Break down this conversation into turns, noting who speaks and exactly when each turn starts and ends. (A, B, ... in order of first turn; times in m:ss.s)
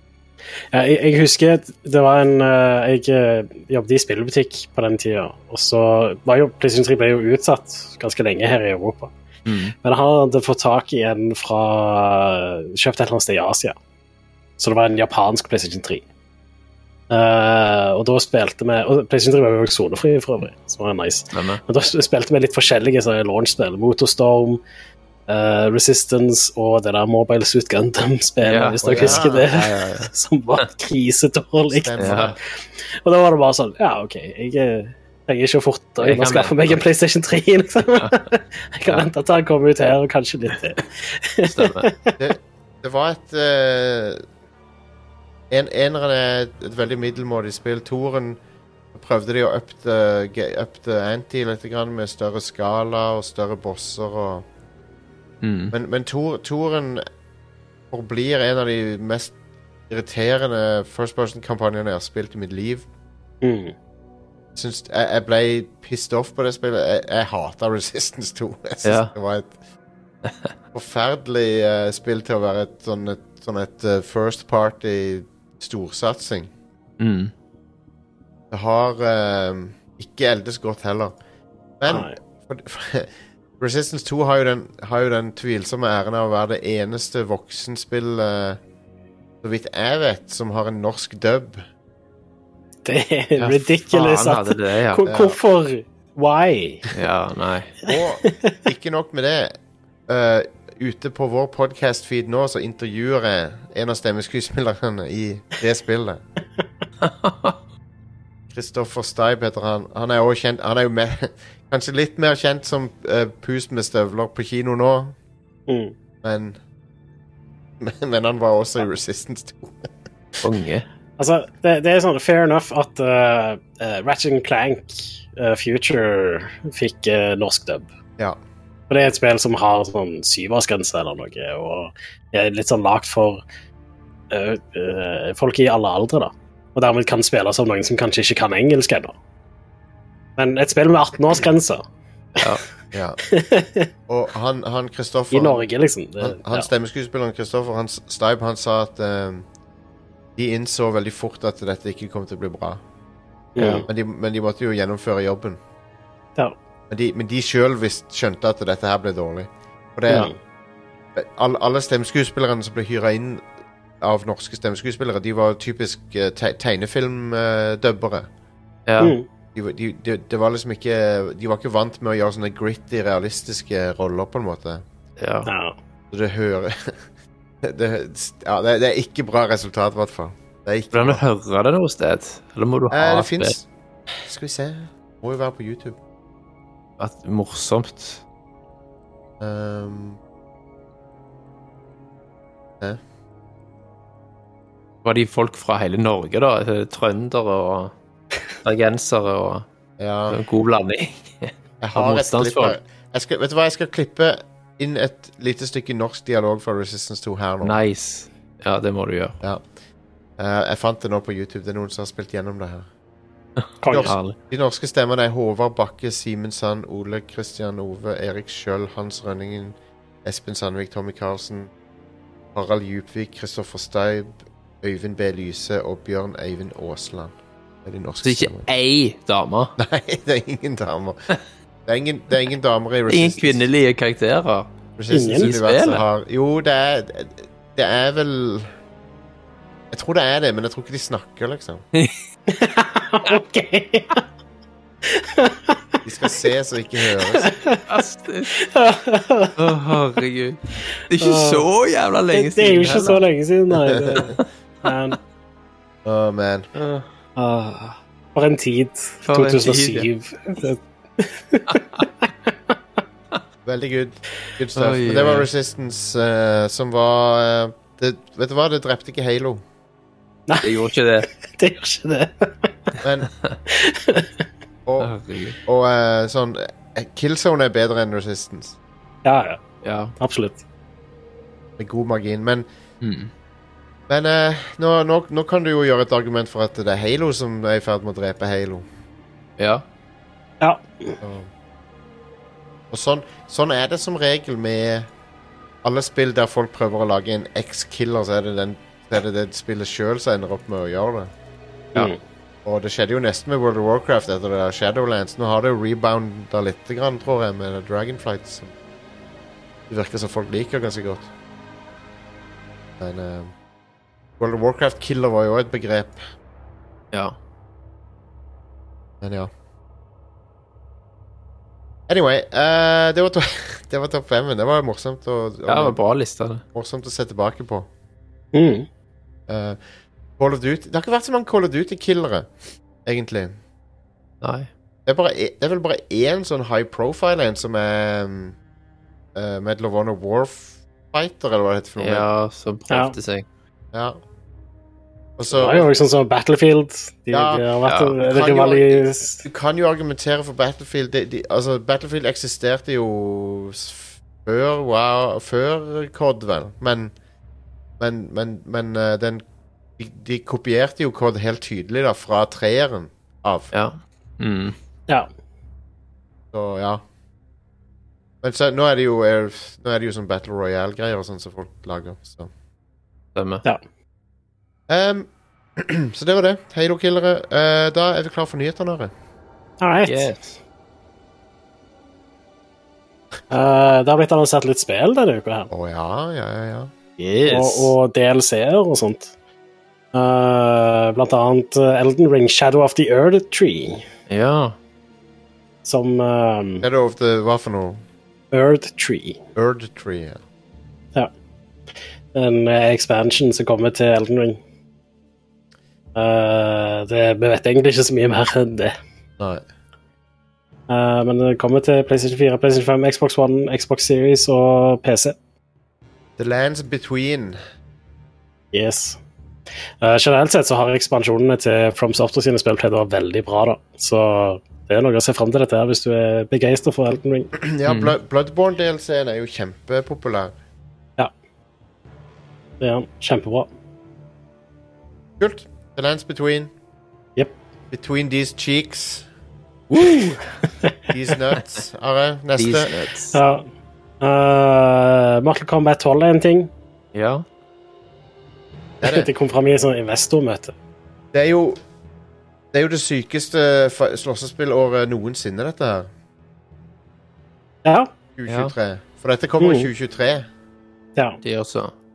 0:00.7-0:09.1 A
0:09.5-0:09.7 B
0:09.8-0:13.8 A
0:14.6-0:16.0 A
0:17.1-0:24.6 A
0:21.3-0:21.6 B
0:25.3-0:32.4 A
0:28.4-0:30.6 B
0:28.8-0:29.5 C
0:31.7-0:32.4 C
0:32.0-0:32.4 B
0:33.0-0:42.2 A
0:36.0-0:36.8 B
0:37.9-0:38.2 B
0:41.4-0:41.9 B
0:42.2-0:44.2 C
0:45.5-0:48.4 C
0:48.9-0:54.4 C
0:55.4-0:55.7 B
0:55.7-0:57.1 C
0:57.9-0:59.3 C
0:59.9-1:02.9 C
1:03.4-1:03.7 A
1:04.6-1:09.5 C
1:08.8-1:09.1 B
1:10.2-1:10.5 B
1:10.7-1:16.5 C
1:17.0-1:17.3 B
1:18.5-1:21.2 C
1:21.8-1:28.6 C
1:21.9-1:22.2 A
1:29.4-1:31.6 C
1:32.8-1:36.9 A
1:33.4-1:35.1 B
1:35.1-1:35.4 C
1:36.9-1:37.8 B
1:37.9-1:46.2 C
1:37.9-1:38.6 A
1:47.0-1:47.5 B
1:48.5-1:55.2 C
1:55.7-1:56.0 A
1:56.2-1:56.6 C
1:57.8-1:59.9 C
2:00.4-2:00.8 B
2:01.2-2:07.9 A
2:08.9-2:13.4 A
2:14.3-2:19.1 A
2:20.4-2:21.8 A
2:22.9-2:23.2 C
2:23.2-2:23.9 A
2:24.1-2:25.6 C
2:25.3-2:26.7 A
2:26.2-2:29.5 C
2:30.4-2:32.8 C
2:33.6-2:33.9 A
2:33.6-2:35.6 C
2:36.9-2:40.3 C
2:40.1-2:40.3 A
2:41.2-2:43.4 C
2:44.0-2:48.3 C
2:48.9-2:49.2 B
2:49.0-2:49.2 A
2:49.6-2:54.8 C
2:55.2-2:55.5 B
2:55.5-2:55.8 A
2:56.1-2:57.0 C
2:57.6-3:01.2 C
3:00.9-3:03.6 B
3:02.9-3:06.0 C
3:07.0-3:08.2 B
3:09.4-3:10.2 C
3:15.0-3:17.9 B
3:18.6-3:19.7 B
3:20.0-3:20.4 C
3:20.3-3:22.8 B
3:21.8-3:27.8 C
3:27.6-3:29.4 B
3:30.4-3:32.9 C
3:33.8-3:34.1 A
3:33.9-3:41.7 C
3:33.9-3:34.4 B
3:42.5-3:48.7 C
3:48.2-3:49.7 B
3:49.8-3:51.2 C
3:51.9-3:53.7 C
3:53.1-3:54.7 B
3:55.0-3:58.7 C
3:55.1-3:55.5 A
3:55.3-3:56.0 B
3:59.9-4:01.8 C
4:01.9-4:02.2 B
4:02.5-4:04.2 A
4:05.0-4:06.0 A
4:06.0-4:07.5 C
4:07.1-4:07.8 A
4:07.9-4:08.5 B
4:08.5-4:09.6 A
4:09.6-4:13.2 B
4:11.2-4:11.7 A
4:12.3-4:15.2 A
4:13.9-4:14.2 C
4:16.0-4:16.7 C
4:16.8-4:17.1 B
4:17.4-4:22.3 A
4:19.3-4:20.1 B
4:21.7-4:22.0 B
4:23.6-4:29.6 C
4:24.8-4:25.5 B
4:30.5-4:32.9 A
4:30.6-4:31.3 B
4:33.0-4:33.3 C
4:33.7-4:34.3 A
4:34.9-4:35.1 C
4:35.0-4:35.6 B
4:35.7-4:38.8 C
4:39.2-4:39.6 A
4:39.8-4:40.1 B
4:40.2-4:40.6 A
4:41.8-4:42.7 C
4:43.0-4:43.3 B
4:44.1-4:48.9 C
4:49.6-4:49.8 B
4:50.6-4:51.2 A
4:51.2-4:51.5 C
4:52.9-4:55.1 C
4:55.8-5:01.3 C
5:02.6-5:08.7 C
5:09.9-5:11.3 C
5:13.0-5:13.5 C
5:14.4-5:16.2 C
5:17.1-5:17.4 B
5:19.2-5:19.5 C
5:22.1-5:26.0 C
5:25.7-5:26.6 B
5:26.7-5:27.9 C
5:28.5-5:28.9 A
5:29.5-5:29.8 C
5:30.4-5:32.5 C
5:33.0-5:33.6 C
5:34.4-5:34.7 B
5:35.1-5:38.6 C
5:39.4-5:42.3 C
5:42.0-5:43.5 B
5:42.9-5:43.2 A
5:43.9-5:44.2 C
5:45.4-5:45.9 C
5:45.5-5:49.4 A
5:47.3-5:47.6 C
5:47.8-5:48.2 B
5:48.2-5:57.1 C
5:58.0-5:59.4 C
6:00.0-6:03.7 C
6:03.7-6:04.8 B
6:06.5-6:07.0 C
6:08.4-6:12.5 C
6:13.4-6:13.6 B
6:14.9-6:19.1 C
6:19.8-6:20.3 A
6:20.1-6:20.4 B
6:23.5-6:25.7 A
6:25.7-6:26.9 C
6:27.2-6:27.9 B
6:27.4-6:29.3 A
6:30.1-6:34.0 A
6:34.3-6:34.8 B
6:35.8-6:36.9 A
6:36.8-6:38.0 C
6:38.5-6:39.4 A
6:39.6-6:40.4 C
6:42.4-6:44.6 A
6:46.2-6:49.0 A
6:49.4-6:49.6 C
6:50.9-6:55.4 A
6:56.4-6:57.6 C
6:58.7-6:59.2 A
7:00.0-7:07.5 A
7:07.5-7:10.5 C
7:07.9-7:08.2 B
7:12.8-7:13.7 A
7:15.4-7:16.7 C
7:17.9-7:19.3 C
7:19.9-7:20.4 B
7:20.0-7:20.3 A
7:21.1-7:22.9 C
7:22.6-7:23.4 B
7:23.3-7:23.6 A
7:24.2-7:26.7 A
7:27.1-7:27.4 B
7:29.0-7:29.3 C
7:29.0-7:30.7 A
7:31.3-7:31.8 C
7:32.7-7:36.1 C
7:37.8-7:38.1 A
7:38.4-7:40.5 C
7:38.5-7:38.7 B
7:39.6-7:39.9 A
7:41.4-7:41.9 B